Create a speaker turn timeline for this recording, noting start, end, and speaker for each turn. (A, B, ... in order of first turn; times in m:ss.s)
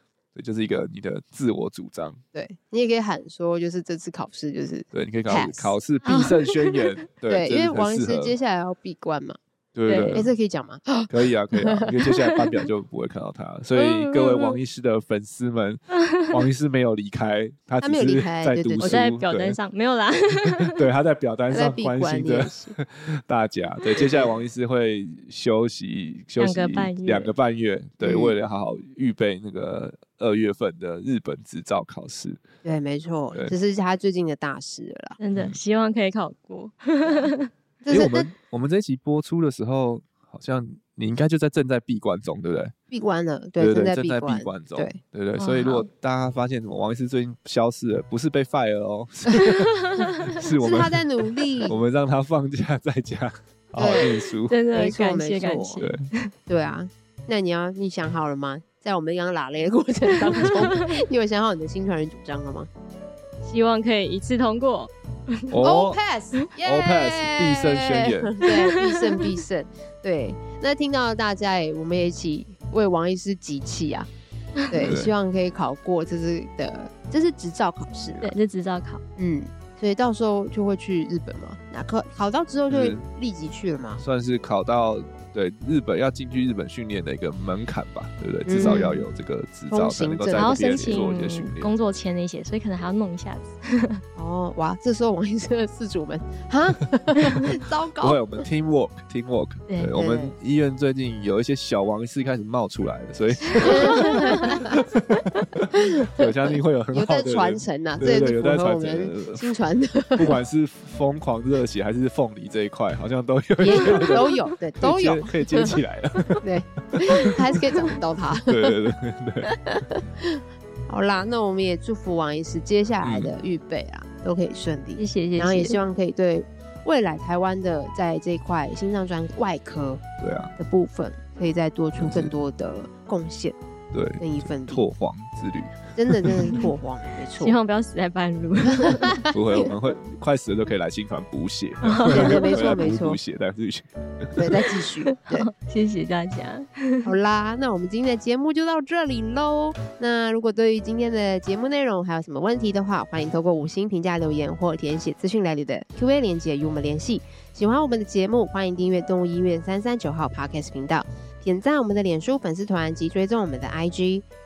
0:00.4-0:02.2 A
0:02.3-0:05.8 B
0:04.9-0:08.4 A
0:06.0-0:06.8 C
0:07.3-0:09.4 B
0:09.7-0:10.3 A
0:09.9-0:10.3 C
0:10.1-0:12.0 B
0:11.1-0:19.6 A
0:13.8-0:14.6 C
0:17.8-0:19.0 B
0:18.8-0:20.8 C
0:20.5-0:32.4 A
0:21.5-0:22.8 B
0:24.0-0:24.3 B
0:26.4-0:27.3 C
0:28.0-0:28.3 B
0:32.6-0:35.2 B
0:35.2-0:37.5 C
0:37.8-0:38.3 B
0:37.9-0:42.7 A
0:42.9-0:45.0 B
0:43.6-0:51.1 A
0:45.4-0:45.9 C
0:49.6-0:50.3 C
0:50.6-0:51.8 B
0:51.6-0:54.5 A
0:53.8-0:54.1 B
0:54.5-0:56.3 C
0:54.7-0:55.8 B
0:56.5-1:02.7 B
1:00.4-1:01.0 C
1:03.4-1:05.5 C
1:05.5-1:06.0 A
1:05.6-1:14.1 B
1:06.6-1:08.4 A
1:08.4-1:09.3 C
1:14.7-1:14.9 C
1:14.7-1:18.3 B
1:14.8-1:15.1 A
1:18.2-1:19.0 C
1:19.2-1:24.0 B
1:22.7-1:23.0 A
1:24.0-1:31.7 A
1:28.5-1:29.0 B
1:28.6-1:28.9 C
1:29.7-1:31.1 B
1:30.4-1:34.0 C
1:34.2-1:38.4 B
1:37.2-1:37.5 C
1:38.0-1:49.5 A
1:40.0-1:40.3 B
1:43.5-1:44.6 C
1:43.6-1:44.8 B
1:45.7-1:46.3 B
1:46.9-1:50.4 B
1:50.1-1:57.6 A
1:53.6-1:55.8 B
1:56.4-1:58.8 B
1:58.5-1:59.6 A
1:59.4-2:10.0 B
2:03.0-2:03.3 A
2:05.0-2:05.8 C
2:10.2-2:10.5 A
2:10.6-2:13.6 B
2:12.0-2:12.4 A
2:13.9-2:16.6 A
2:14.2-2:14.9 B
2:16.0-2:17.6 B
2:17.4-2:19.2 C
2:18.8-2:19.7 B
2:19.3-2:24.6 A
2:21.8-2:22.5 C
2:22.1-2:23.2 B
2:24.4-2:25.5 B
2:25.1-2:27.1 C
2:27.0-2:44.2 B